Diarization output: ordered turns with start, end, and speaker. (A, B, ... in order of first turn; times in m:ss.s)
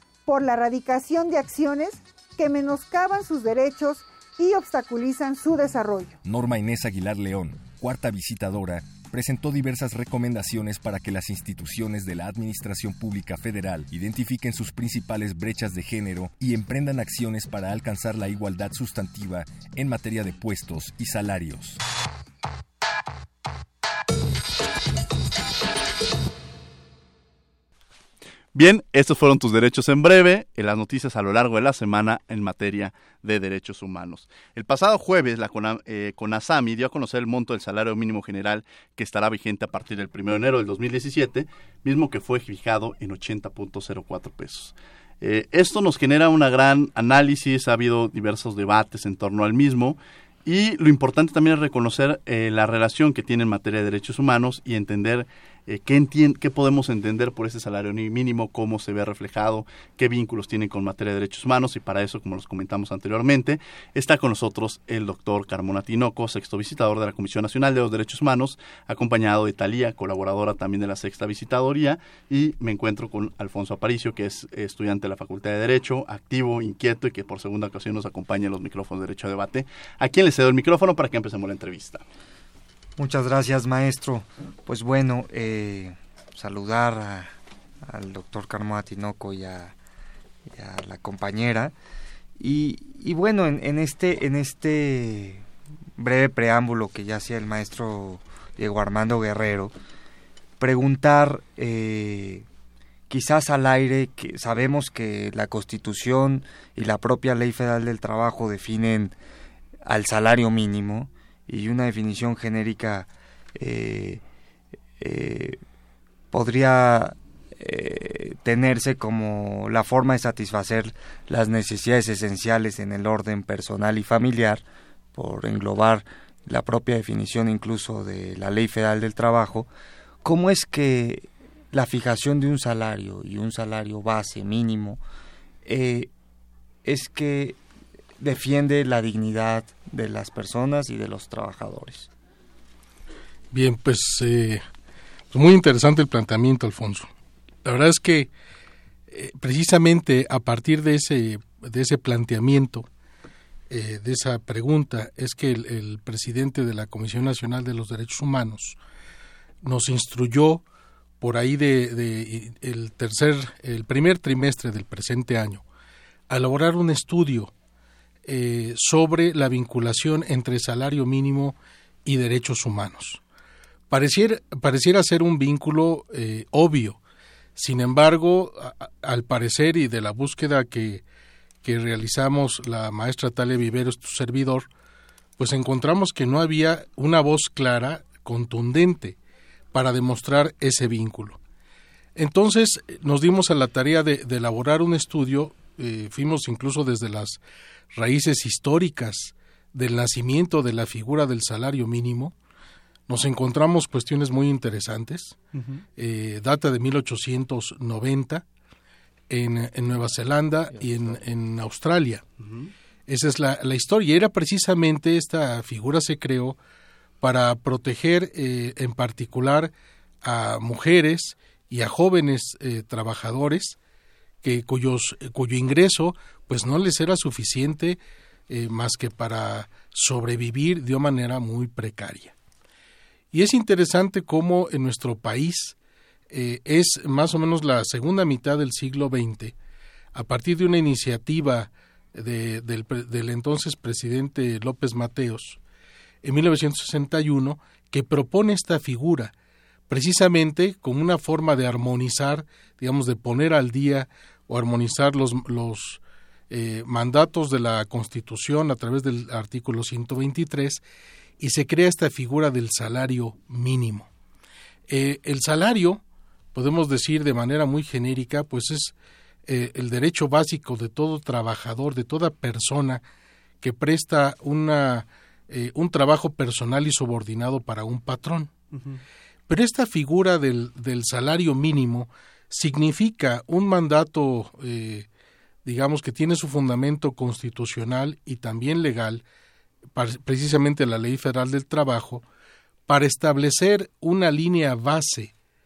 0:00.3-0:06.2 A
0:06.2-0:21.8 B
0:28.5-1:22.0 C
1:23.0-1:27.3 D
1:27.8-1:29.8 D
1:30.5-1:31.8 D
1:32.4-1:35.5 D
1:36.0-1:39.7 D
1:40.6-1:42.5 D
1:43.1-1:49.2 D
1:49.8-1:54.2 D
1:55.0-1:55.6 D
1:56.3-2:09.7 D
2:10.2-2:15.0 D
2:15.6-2:16.1 D
2:16.8-2:17.6 D
2:18.2-2:22.1 D
2:23.5-2:24.6 E
2:25.3-2:27.1 E
2:27.6-2:28.3 E
2:29.1-2:32.9 E
2:33.7-2:38.8 E
2:39.6-2:40.6 E
2:41.2-2:45.6 E
2:46.3-2:47.5 E
2:48.2-2:53.2 E
2:53.9-2:57.0 E
2:57.6-3:01.0 E
3:01.6-3:04.7 E
3:05.4-3:09.2 E
3:09.7-3:11.4 E
3:12.2-3:22.3 E
3:23.1-3:25.4 E
3:25.6-3:25.8 C
3:26.0-3:28.4 E
3:29.3-3:32.2 E
3:32.4-3:32.7 C
3:33.1-3:36.6 E
3:37.2-3:43.8 E
3:44.4-3:52.4 E
3:53.3-3:55.8 E
3:56.3-3:59.5 E
4:00.1-4:05.6 E
4:06.2-4:09.3 E
4:09.9-4:20.8 E
4:21.4-4:24.1 E
4:24.9-4:26.0 E
4:26.5-4:29.0 E
4:29.5-4:33.0 E
4:33.6-4:38.5 E
4:38.7-4:39.0 C
4:39.5-4:45.1 E
4:45.6-4:49.2 E
4:50.0-4:52.2 E
4:52.9-4:55.3 E